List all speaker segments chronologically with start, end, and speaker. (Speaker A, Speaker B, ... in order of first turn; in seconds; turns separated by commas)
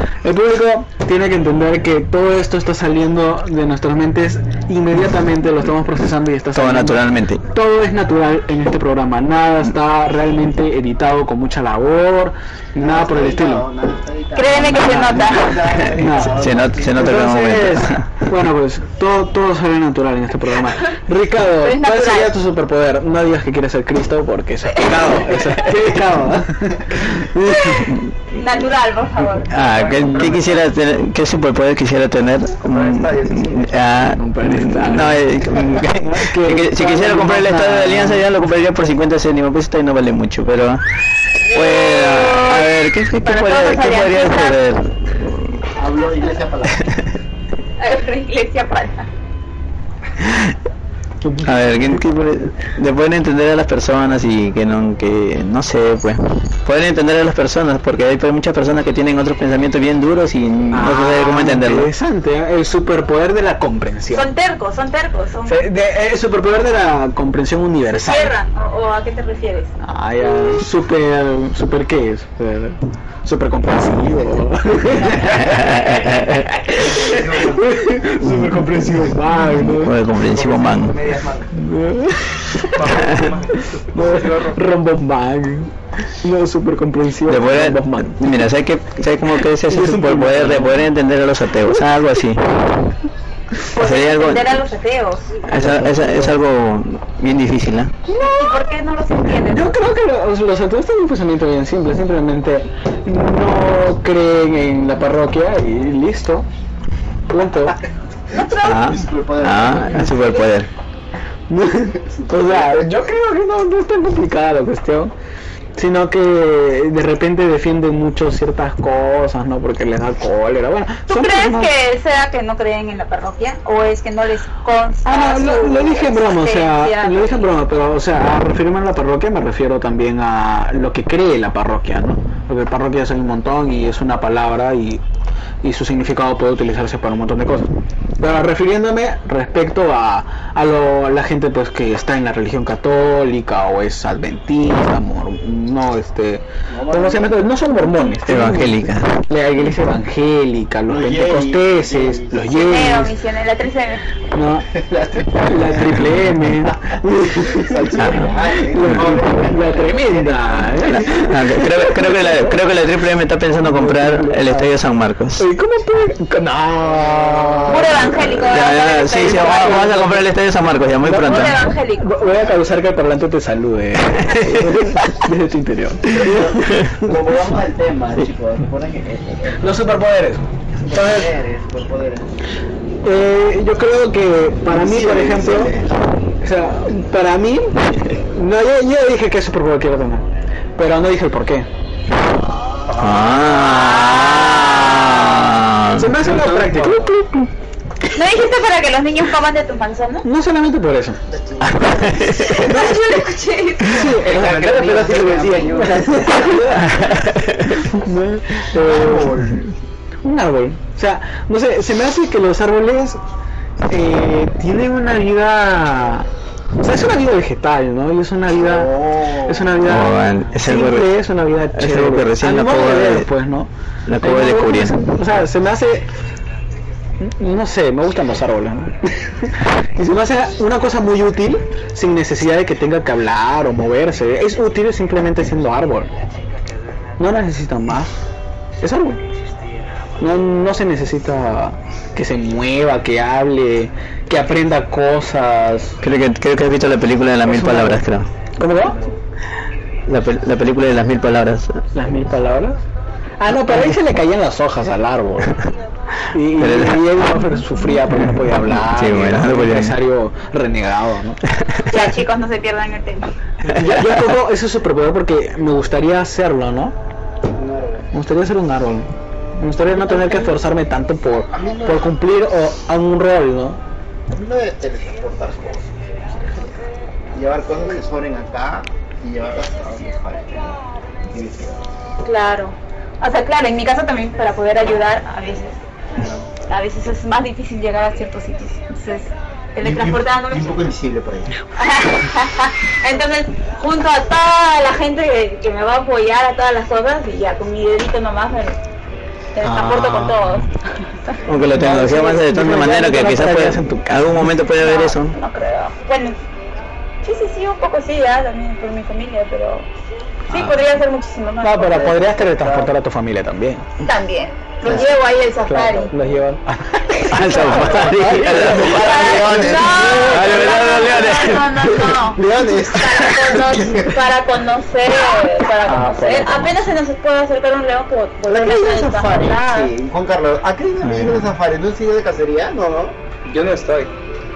Speaker A: 0.2-13.6, Speaker B: 6.5-7.4, Speaker C: 12.8-17.2, Speaker D: 14.3-15.9, Speaker A: 14.5-27.9, Speaker B: 16.3-18.2, Speaker D: 21.6-22.3, Speaker D: 25.1-25.5, Speaker D: 27.5-29.6, Speaker B: 27.6-28.0, Speaker B: 29.5-40.8, Speaker C: 29.6-30.3, Speaker E: 29.7-30.2, Speaker C: 32.7-33.8, Speaker A: 34.1-38.3, Speaker B: 41.5-45.6, Speaker D: 41.5-44.6, Speaker C: 45.7-46.9, Speaker D: 47.8-49.1, Speaker A: 51.2-51.9, Speaker B: 51.4-61.9, Speaker A: 60.7-64.3, Speaker D: 64.1-65.7, Speaker A: 65.5-68.3, Speaker D: 68.0-69.7, Speaker A: 69.8-80.0, Speaker E: 76.7-78.0, Speaker B: 78.3-78.6, Speaker B: 79.5-81.0, Speaker E: 80.2-81.5, Speaker A: 81.5-88.2, Speaker E: 82.7-84.6, Speaker B: 87.3-92.7, Speaker A: 89.4-90.8, Speaker D: 93.7-95.2, Speaker B: 93.7-94.6, Speaker B: 95.5-97.9, Speaker A: 95.6-96.3, Speaker A: 98.1-98.7, Speaker D: 98.1-99.7, Speaker A: 99.3-106.5, Speaker A: 107.3-107.8, Speaker D: 108.3-108.9, Speaker C: 108.4-110.5, Speaker B: 108.6-110.7, Speaker A: 111.5-115.1, Speaker C: 112.0-112.9, Speaker A: 115.8-121.7, Speaker D: 121.1-127.5, Speaker A: 125.0-135.0, Speaker A: 135.6-153.1, Speaker C: 146.7-147.4, Speaker B: 148.2-149.2, Speaker C: 150.9-152.5, Speaker D: 152.5-154.0, Speaker A: 154.3-154.7, Speaker C: 154.7-156.1, Speaker A: 155.4-162.6, Speaker C: 157.3-161.2, Speaker B: 158.0-158.3, Speaker B: 161.0-165.4, Speaker A: 163.6-164.8, Speaker A: 165.4-168.1, Speaker C: 166.8-168.2, Speaker D: 167.7-169.9, Speaker B: 168.4-171.7, Speaker A: 169.2-170.2, Speaker D: 171.0-172.2, Speaker A: 171.1-177.1, Speaker C: 176.1-179.7, Speaker A: 179.6-181.3, Speaker C: 180.8-182.3, Speaker A: 183.0-185.7, Speaker C: 184.7-186.1, Speaker A: 186.4-191.7, Speaker C: 192.6-193.1, Speaker A: 193.0-197.5, Speaker B: 193.0-196.2, Speaker D: 193.6-195.1, Speaker E: 196.3-197.0, Speaker D: 198.1-200.2, Speaker A: 200.2-201.2, Speaker C: 201.3-202.3, Speaker B: 201.6-202.7, Speaker D: 202.4-204.2, Speaker A: 203.8-209.6, Speaker C: 204.0-207.3, Speaker B: 207.1-207.6, Speaker C: 208.6-209.7, Speaker A: 210.2-213.2, Speaker A: 213.9-216.3, Speaker A: 216.8-226.1, Speaker C: 218.5-220.0, Speaker B: 219.8-223.3, Speaker B: 224.1-225.0, Speaker A: 227.2-236.1, Speaker A: 237.2-238.2, Speaker A: 238.8-239.2, Speaker A: 240.2-246.0, Speaker B: 246.0-248.3, Speaker A: 247.4-248.0, Speaker A: 248.6-249.0, Speaker B: 250.1-251.8, Speaker A: 251.9-252.8, Speaker A: 253.4-255.6, Speaker A: 256.3-261.4, Speaker B: 256.6-257.1, Speaker B: 258.1-260.0, Speaker D: 261.8-263.3, Speaker A: 263.6-266.9, Speaker C: 267.5-268.1, Speaker A: 268.1-273.8, Speaker C: 270.0-270.6, Speaker C: 271.5-272.1, Speaker C: 274.3-275.9, Speaker C: 277.3-281.9, Speaker D: 282.2-285.8, Speaker C: 286.1-286.5, Speaker D: 286.7-290.9, Speaker C: 289.8-291.5, Speaker D: 291.8-298.8, Speaker D: 299.5-300.7, Speaker A: 299.6-300.6, Speaker B: 301.4-305.4, Speaker A: 301.7-304.5, Speaker D: 304.8-306.4, Speaker D: 307.2-309.9, Speaker D: 310.5-312.2, Speaker A: 311.6-313.9, Speaker C: 311.9-312.9, Speaker D: 314.0-316.1, Speaker C: 314.8-315.2, Speaker A: 315.7-320.8, Speaker B: 317.3-319.3, Speaker C: 318.1-320.6, Speaker D: 318.8-329.9, Speaker B: 320.2-322.2, Speaker C: 322.3-324.2, Speaker A: 325.8-326.9, Speaker C: 328.4-333.2, Speaker A: 331.0-331.5, Speaker E: 333.5-334.1